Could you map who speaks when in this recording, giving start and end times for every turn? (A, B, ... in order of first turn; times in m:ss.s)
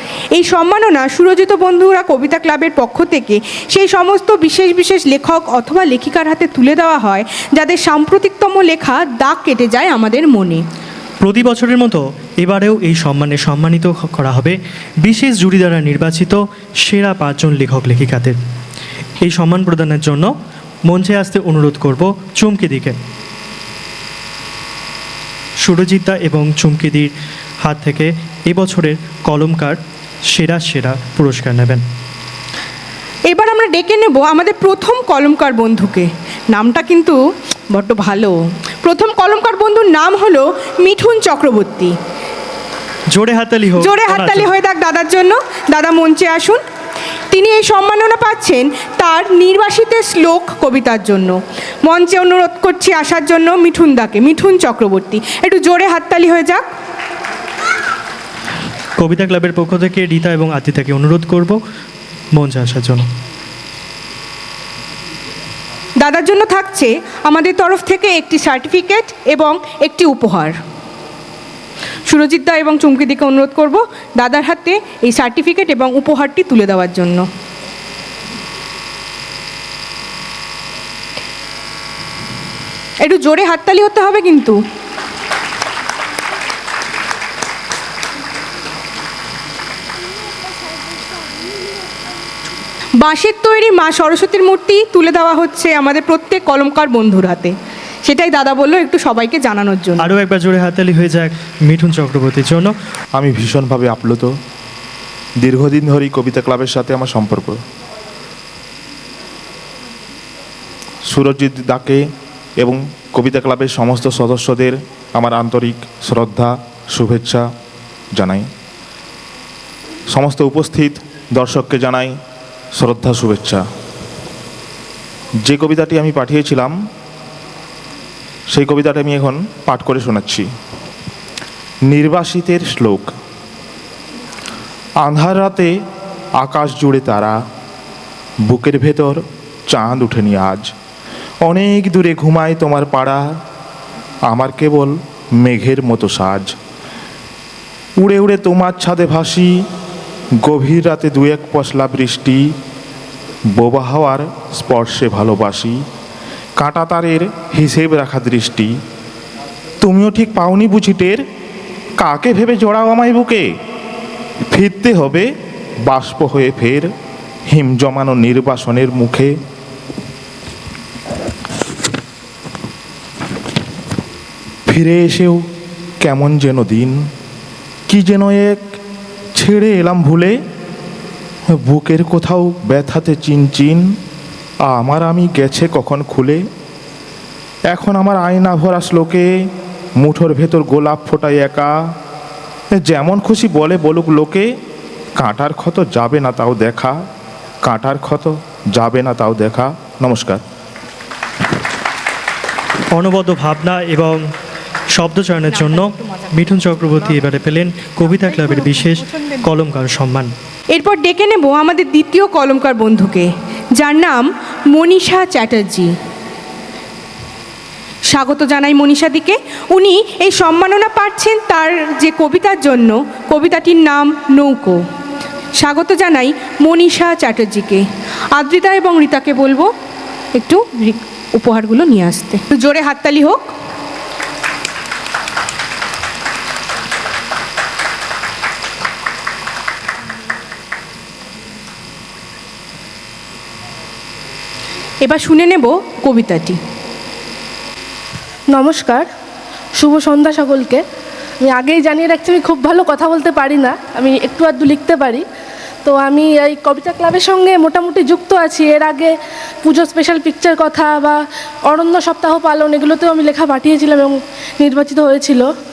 0:00.3-0:10.6 A
0:11.2-0:18.4 B
0:19.2-0:20.3 B
0:20.9-0:23.0 B
0:25.6-0:27.1 B
0:27.6-0:29.8 B
0:30.3-0:31.8 B
0:33.3-0:37.2 A
0:37.7-0:42.0 A
0:43.1-0:44.5 B
0:43.8-0:46.6 A
0:47.3-0:56.7 A
0:59.0-1:01.6 B
1:02.3-1:03.1 B
1:06.0-1:10.6 A
1:12.1-1:17.3 A
1:23.0-1:24.6 A
1:33.0-1:40.0 A
1:40.0-1:42.7 B
1:43.2-1:44.3 C
1:45.4-1:47.6 C
1:51.1-1:52.1 C
1:52.6-1:57.5 C
1:58.1-1:58.5 C
2:00.1-2:02.2 C
2:02.8-2:03.6 C
2:05.4-2:06.8 C
2:08.5-2:10.5 C
2:11.9-2:13.1 C
2:15.0-2:15.8 C
2:16.4-2:17.4 C
2:18.5-2:20.7 C
2:21.4-2:23.4 C
2:24.3-2:26.6 C
2:28.0-2:29.7 C
2:30.4-2:32.6 C
2:33.5-2:35.9 C
2:36.6-2:38.8 C
2:39.8-2:41.2 C
2:42.0-2:43.5 C
2:44.5-2:45.3 C
2:45.8-2:46.9 C
2:47.5-2:49.4 C
2:54.7-2:55.4 C
2:56.0-2:57.1 C
2:57.9-2:58.7 C
2:59.4-3:00.4 C
3:01.5-3:03.9 C
3:04.6-3:06.4 C
3:07.7-3:09.3 C
3:10.0-3:11.8 C
3:12.7-3:14.6 C
3:15.2-3:17.0 C
3:17.6-3:20.4 C
3:22.9-3:24.2 B
3:24.9-3:30.3 B
3:25.5-3:27.1 A
3:28.1-3:29.4 A
3:30.7-3:35.9 A
3:38.1-3:44.8 A
3:45.6-3:47.8 A
3:48.4-3:49.7 A
3:50.4-3:53.5 A
4:05.0-4:06.6 A
4:08.5-4:09.1 D
4:09.8-4:10.8 D
4:11.4-4:15.2 D
4:15.8-4:25.5 D